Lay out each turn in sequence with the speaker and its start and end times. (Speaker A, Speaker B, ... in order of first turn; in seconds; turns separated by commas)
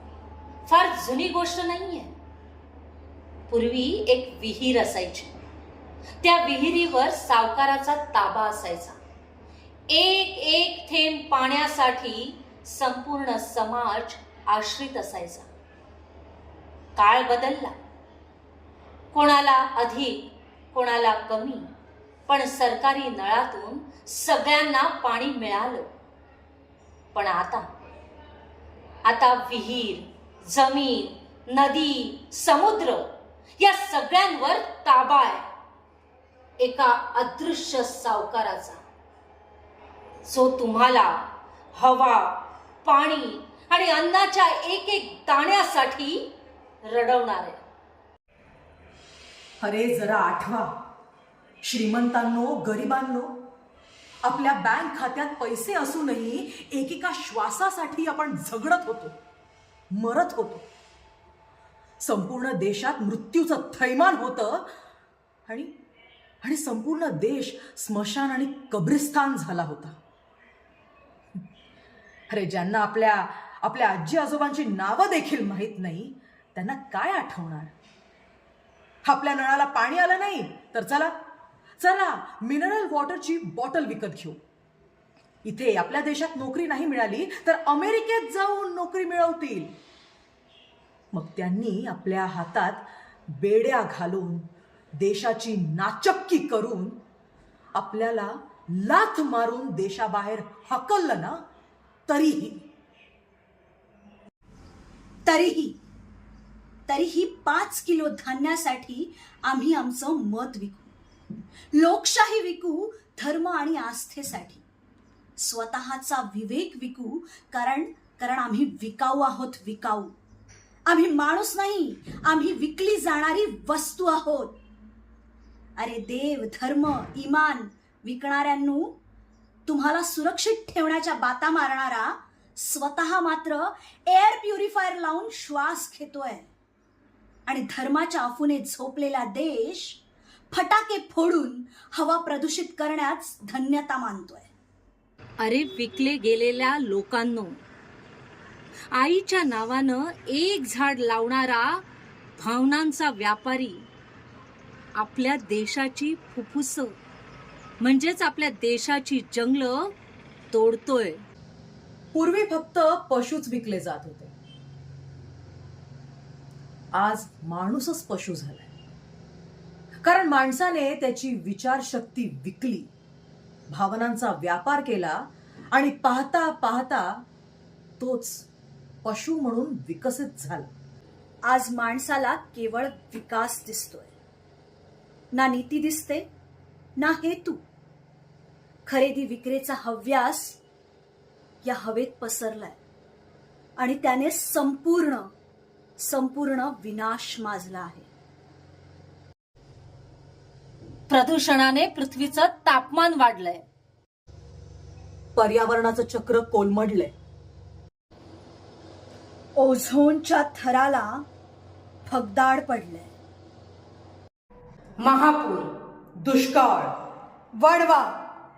Speaker A: 0.7-2.1, Speaker A: 3.5-5.3, Speaker A: 6.2-9.0, Speaker A: 9.9-15.5, Speaker A: 17.0-17.8, Speaker A: 19.1-21.7, Speaker A: 22.3-25.9, Speaker A: 27.1-27.7, Speaker A: 29.1-35.5, Speaker A: 36.6-38.8, Speaker A: 40.2-41.2, Speaker A: 41.7-46.2, Speaker A: 46.8-47.6, Speaker B: 49.6-50.7, Speaker B: 51.6-53.3, Speaker B: 54.2-59.1, Speaker B: 59.9-60.7, Speaker B: 62.0-64.7, Speaker B: 66.4-70.0, Speaker B: 72.3-77.7, Speaker B: 79.0-81.1, Speaker B: 81.8-84.4, Speaker B: 85.4-89.7, Speaker B: 91.1-94.5, Speaker B: 95.0-97.0, Speaker B: 97.8-101.4, Speaker B: 102.1-102.6, Speaker C: 105.3-105.8, Speaker C: 106.9-110.9, Speaker C: 111.7-114.6, Speaker C: 115.4-120.2, Speaker C: 120.9-124.6, Speaker C: 125.8-128.9, Speaker C: 129.7-136.5, Speaker C: 137.5-144.5, Speaker A: 145.4-147.6, Speaker A: 148.9-151.8, Speaker A: 152.4-153.9, Speaker A: 155.0-156.9, Speaker A: 157.8-159.9, Speaker A: 160.5-161.2, Speaker B: 162.1-164.3, Speaker B: 166.9-168.7, Speaker B: 170.0-172.9, Speaker B: 173.7-177.2, Speaker B: 178.0-178.5, Speaker B: 179.0-180.7, Speaker C: 181.5-184.1, Speaker C: 185.3-186.3, Speaker C: 187.0-187.6, Speaker C: 188.9-190.6, Speaker C: 191.6-192.8, Speaker C: 193.8-195.3, Speaker C: 196.0-198.1, Speaker A: 201.1-203.6, Speaker B: 205.4-207.1, Speaker C: 209.6-211.2, Speaker C: 212.1-213.1, Speaker A: 215.0-215.7, Speaker B: 216.2-216.9, Speaker C: 217.6-218.1